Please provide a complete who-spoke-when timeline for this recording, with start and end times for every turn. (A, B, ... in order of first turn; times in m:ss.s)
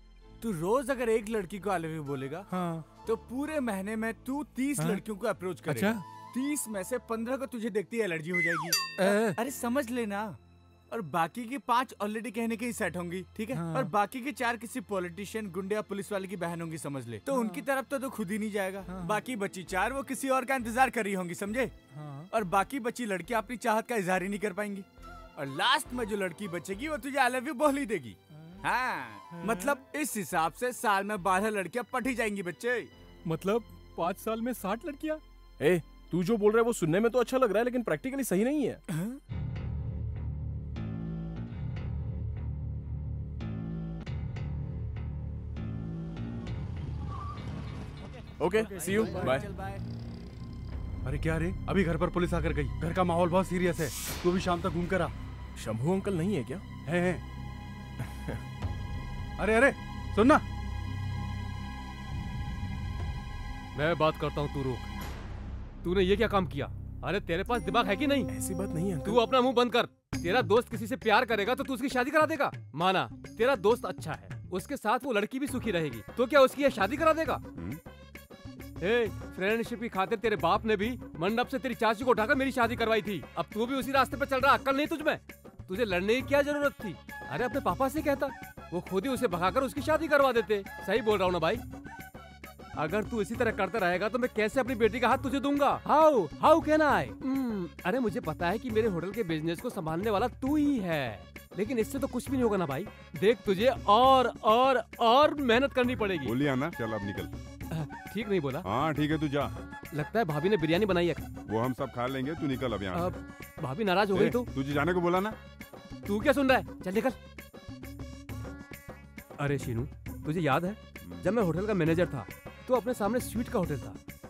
0:00.4-0:02.4 A
0:02.5-0:02.8 B
0:03.0-0:10.4 A
0:04.8-0:05.0 B
0:05.7-0:06.0 B
0:09.0-0:09.4 B
0:10.9-0:21.7 A
0:13.5-0:13.9 B
0:17.3-0:17.6 B
0:18.8-0:19.2 B
0:21.9-0:22.3 B
0:22.3-0:24.8 A
0:25.4-0:32.9 A
0:29.3-0:29.8 B
0:33.2-0:35.2 B
0:35.6-0:38.8 C
0:48.4-0:49.5 C
0:48.6-0:49.8 A
0:51.0-0:55.1 D
0:55.6-0:56.6 C
0:56.9-0:57.2 D
0:59.4-1:00.4 D
1:03.7-1:04.9 E
1:05.8-1:08.3 E
1:08.3-1:09.2 C
1:09.0-1:17.4 E
1:18.8-1:31.6 E
1:32.8-1:46.4 E
1:46.3-1:47.3 F
1:47.7-1:48.6 E
1:48.7-1:49.5 F
1:49.9-1:51.2 E
1:51.5-1:52.9 F
1:52.9-1:54.5 E
1:54.5-1:55.4 F
1:56.1-1:57.2 E
1:59.4-2:04.0 E